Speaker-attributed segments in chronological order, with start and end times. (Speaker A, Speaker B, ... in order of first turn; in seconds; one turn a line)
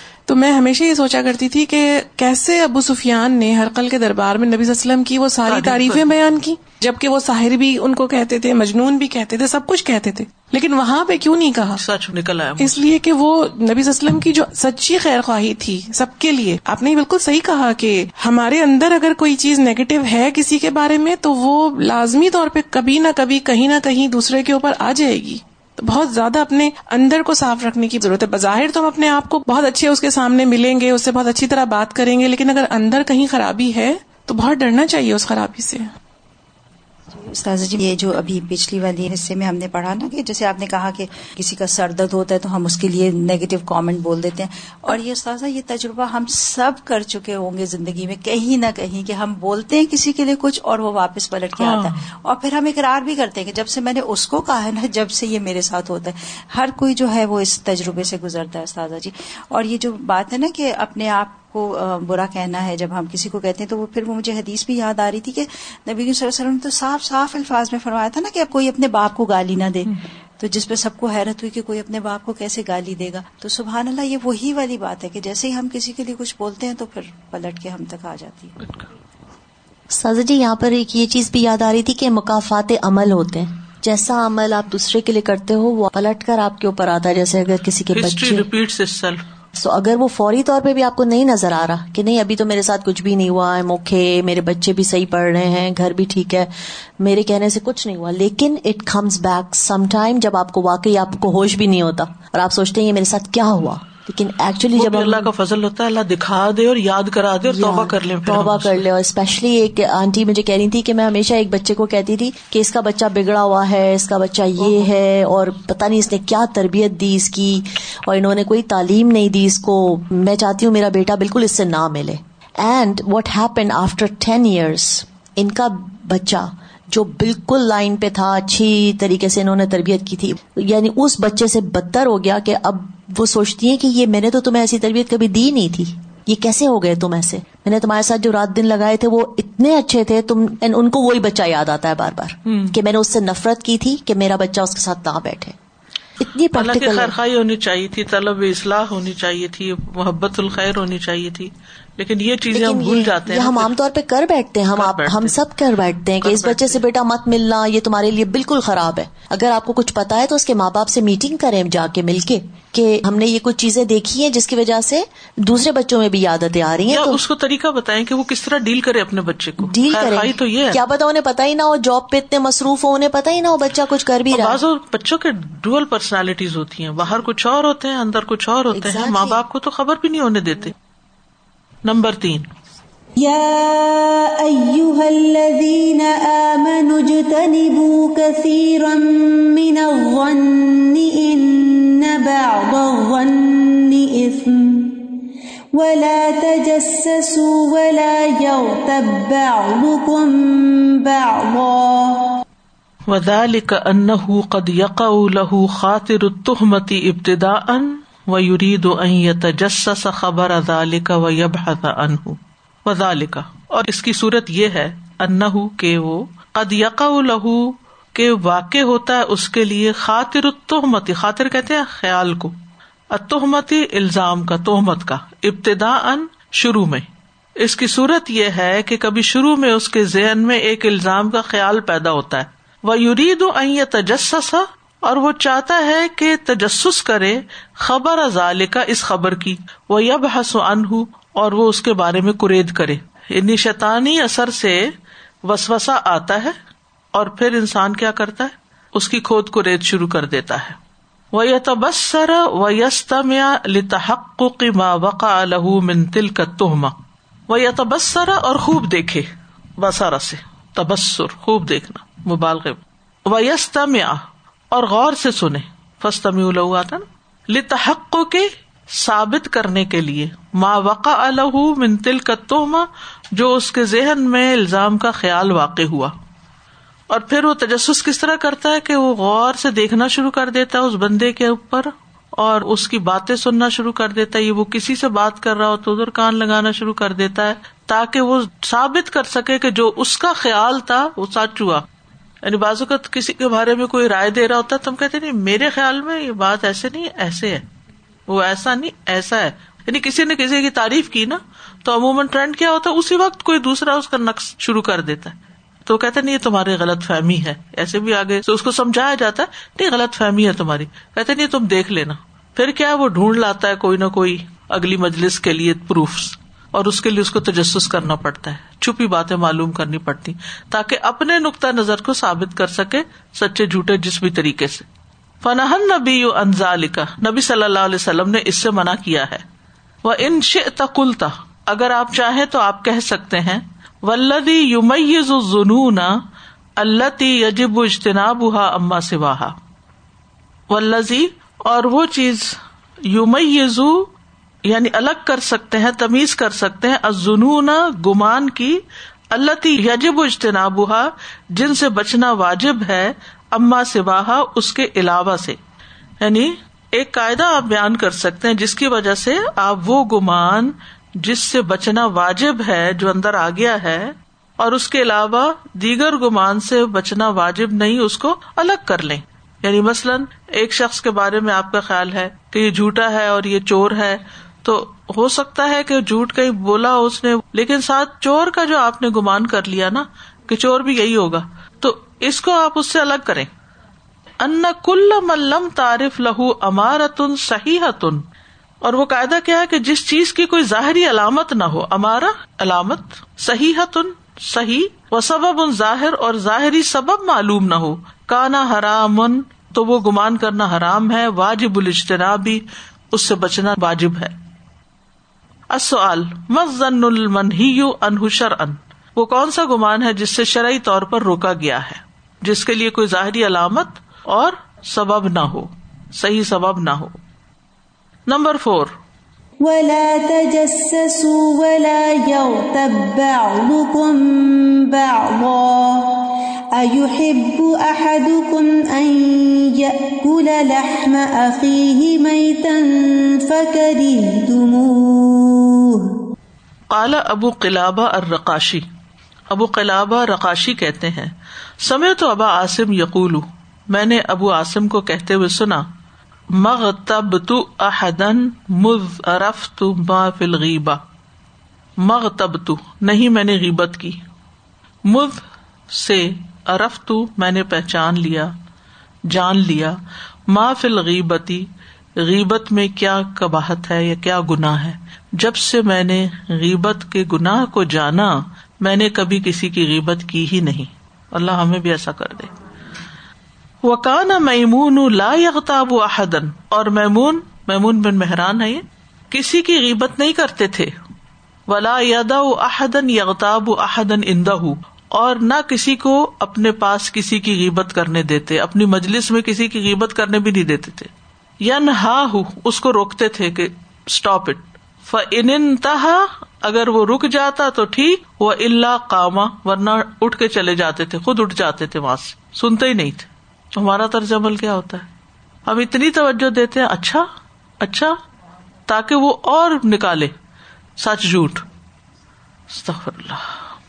Speaker A: 0.3-11.8
Speaker B: 5.5-6.1
Speaker B: 11.7-12.8
Speaker A: 12.6-35.9
Speaker C: 37.1-78.8
Speaker B: 51.6-52.0
Speaker D: 79.9-88.5
Speaker B: 87.9-89.2
Speaker D: 89.5-105.3
Speaker B: 104.8-108.8
Speaker D: 107.4-145.6
Speaker B: 142.5-142.7
Speaker D: 146.2-147.2
Speaker B: 146.5-153.7
Speaker D: 152.5-167.2
Speaker B: 154.7-155.4
Speaker B: 156.2-156.9
Speaker B: 166.9-170.8
Speaker D: 169.6-174.6
Speaker B: 174.3-180.7
Speaker D: 178.7-179.4
Speaker B: 181.8-182.5
Speaker E: 183.2-195.1
Speaker E: 195.7-202.4
Speaker B: 203.1-222.6
Speaker B: 223.1-227.1
Speaker B: 227.6-244.9
Speaker B: 245.4-246.6
Speaker B: 247.1-250.8
Speaker B: 251.3-257.0
Speaker B: 257.5-259.3
Speaker B: 259.8-276.1
Speaker B: 277.1-291.9
Speaker B: 292.4-297.6
Speaker B: 298.3-324.9
Speaker B: 325.4-329.4
Speaker B: 330.0-336.2
Speaker B: 336.8-339.6
Speaker B: 340.7-342.6
Speaker B: 343.1-344.1
Speaker B: 344.7-348.8
Speaker B: 349.3-355.6
Speaker B: 356.2-383.5
Speaker B: 384.4-388.2
Speaker B: 388.8-404.3
Speaker B: 405.7-417.2
Speaker B: 418.3-418.9
Speaker E: 419.6-436.1
Speaker B: 436.9-438.9
Speaker B: 439.5-445.9
Speaker B: 446.6-451.0
Speaker B: 452.0-454.2
Speaker B: 455.1-458.5
Speaker B: 459.3-460.0
Speaker B: 460.5-461.7
Speaker B: 462.2-472.5
Speaker B: 473.8-480.9
Speaker B: 481.7-491.1
Speaker B: 491.6-505.1
Speaker B: 505.7-507.3
Speaker B: 507.8-508.2
Speaker B: 508.9-510.3
Speaker B: 511.0-511.6
Speaker B: 512.7-513.5